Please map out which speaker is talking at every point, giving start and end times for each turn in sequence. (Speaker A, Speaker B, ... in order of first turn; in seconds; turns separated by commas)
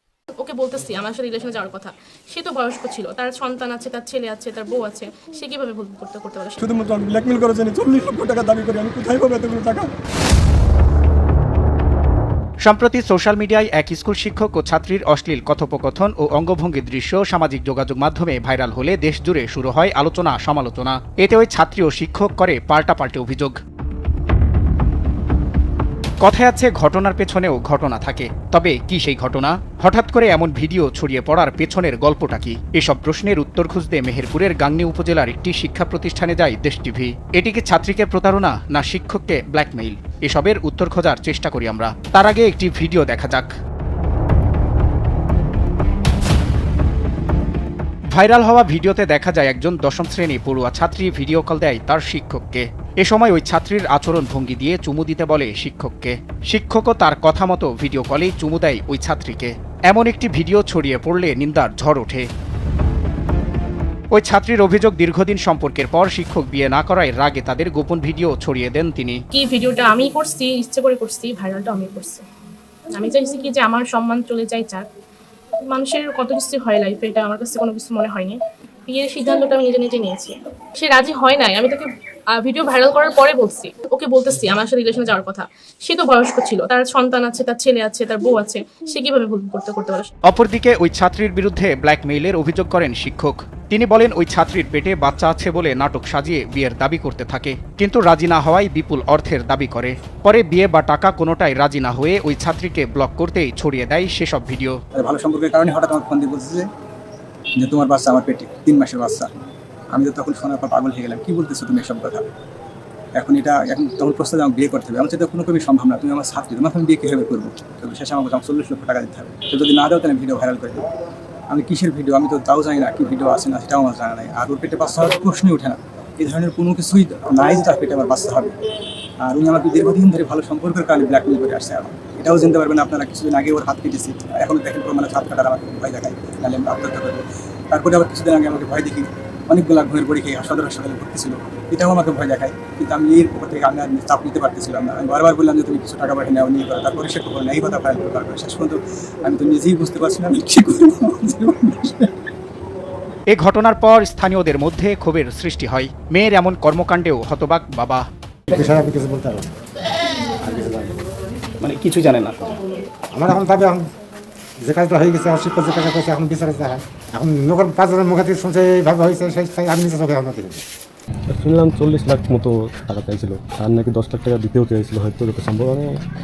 Speaker A: 0.4-6.6, Speaker B: 6.6-9.9, Speaker C: 12.7-23.6, Speaker C: 26.2-43.5, Speaker C: 48.1-62.3, Speaker C: 64.2-69.2, Speaker A: 69.3-72.2, Speaker A: 72.9-74.8, Speaker A: 75.7-90.1, Speaker C: 90.3-104.8, Speaker B: 105.0-106.7, Speaker B: 107.6-109.3, Speaker B: 109.9-112.3, Speaker B: 113.2-120.9, Speaker B: 121.5-128.6, Speaker B: 129.2-152.1, Speaker C: 153.4-158.0, Speaker D: 158.6-159.2, Speaker D: 163.2-163.8, Speaker D: 164.7-170.4, Speaker E: 171.3-176.0